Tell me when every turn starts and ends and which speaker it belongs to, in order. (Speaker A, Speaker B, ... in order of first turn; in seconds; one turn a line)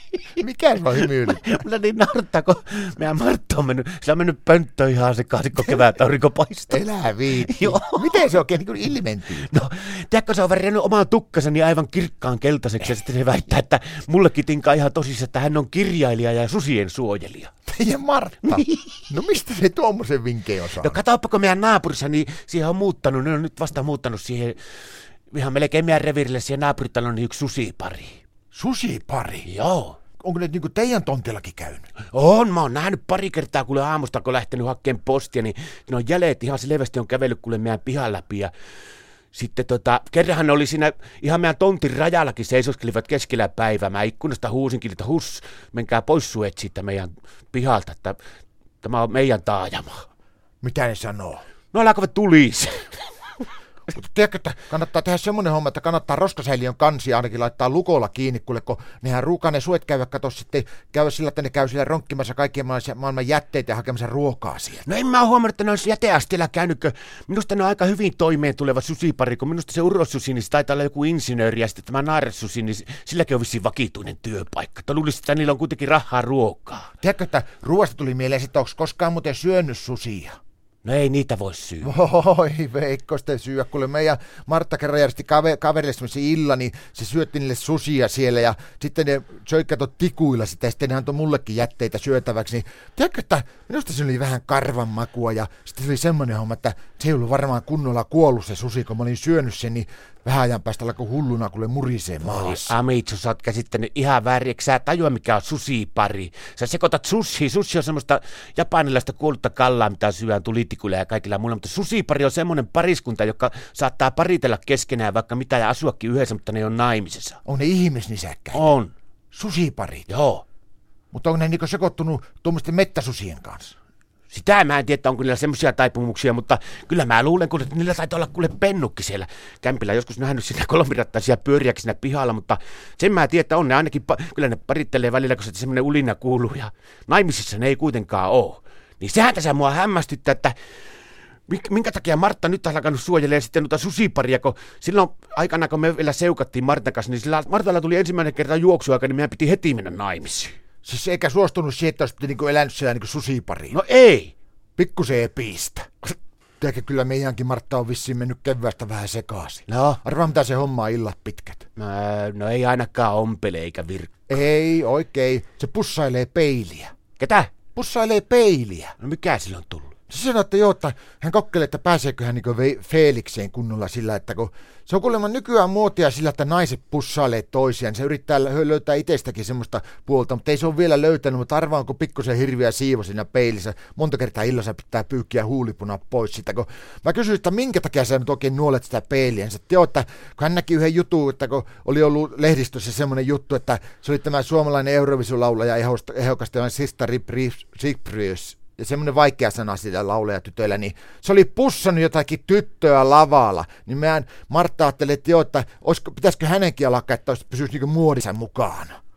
Speaker A: 0.4-1.6
Speaker B: 1.0-6.8
Speaker A: 6.7-9.5
Speaker B: 7.5-8.3
Speaker B: 9.4-17.5
Speaker A: 17.7-21.0
Speaker B: 18.5-19.0
Speaker B: 20.8-24.6
Speaker B: 25.3-28.2
Speaker A: 28.5-29.5
Speaker B: 29.4-30.0
Speaker A: 30.2-31.9
Speaker B: 32.1-38.5
Speaker B: 39.3-48.2
Speaker B: 48.8-50.0
Speaker A: 50.6-51.4
Speaker B: 51.7-52.9
Speaker A: 53.9-64.8
Speaker B: 64.8-76.9
Speaker A: 77.0-80.4
Speaker B: 80.8-81.9
Speaker A: 81.8-102.7
Speaker B: 102.2-117.4
Speaker A: 117.4-118.7
Speaker B: 118.5-118.9
Speaker A: 119.3-120.1
Speaker B: 120.1-120.4
Speaker A: 121.1-123.7
Speaker B: 124.3-140.5
Speaker B: 141.5-150.6
Speaker A: 150.8-153.8
Speaker B: 153.7-154.3
Speaker A: 154.8-161.7
Speaker B: 159.7-160.0
Speaker B: 161.8-164.1
Speaker A: 164.3-166.9
Speaker B: 167.2-167.5
Speaker A: 167.7-168.9
Speaker B: 169.0-169.9
Speaker A: 170.1-209.0